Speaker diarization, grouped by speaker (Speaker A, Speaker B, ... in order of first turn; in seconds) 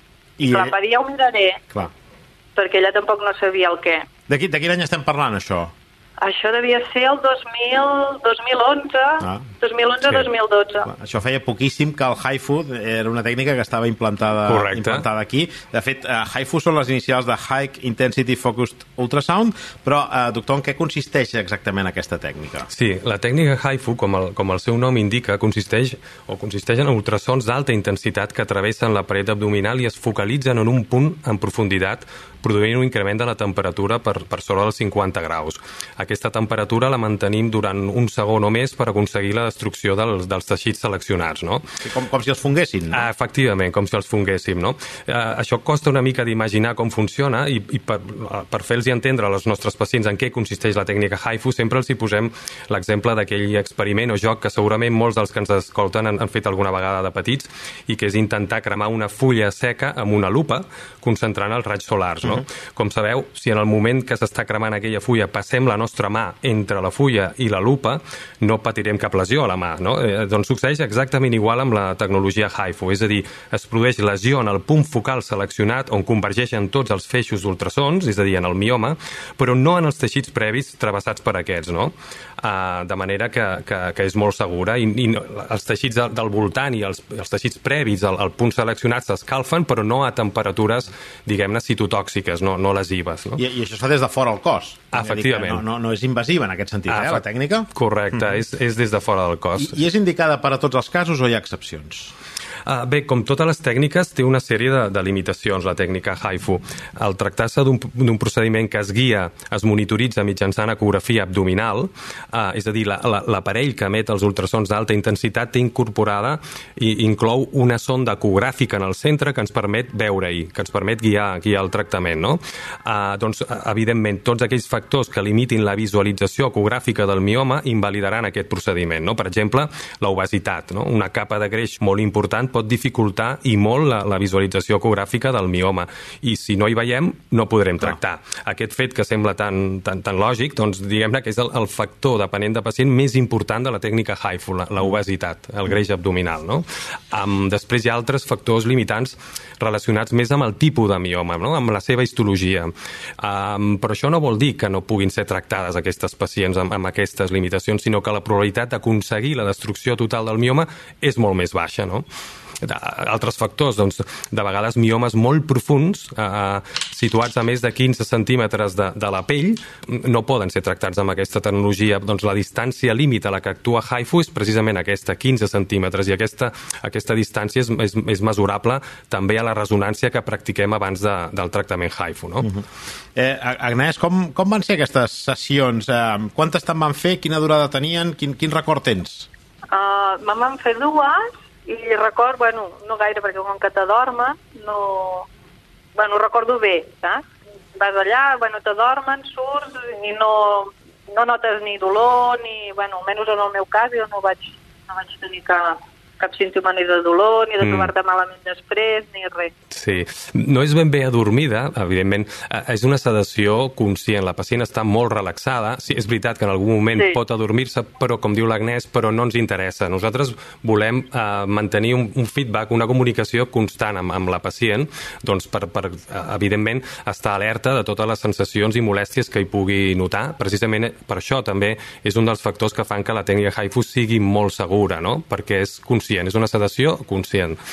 Speaker A: 0.4-0.7, 4.3-5.7, 10.8-22.7, 41.8-43.1, 93.4-98.4, 99.5-102.1, 183.2-189.3
Speaker B: 0.4-1.6, 2.5-4.0, 6.2-10.9, 189.7-195.3, 195.9-197.2, 197.8-209.5, 216.9-217.2
Speaker C: 22.7-41.6, 43.1-93.4, 95.1-95.4, 97.7-99.7, 102.7-162.0, 162.6-182.5, 207.6-207.9, 209.7-237.6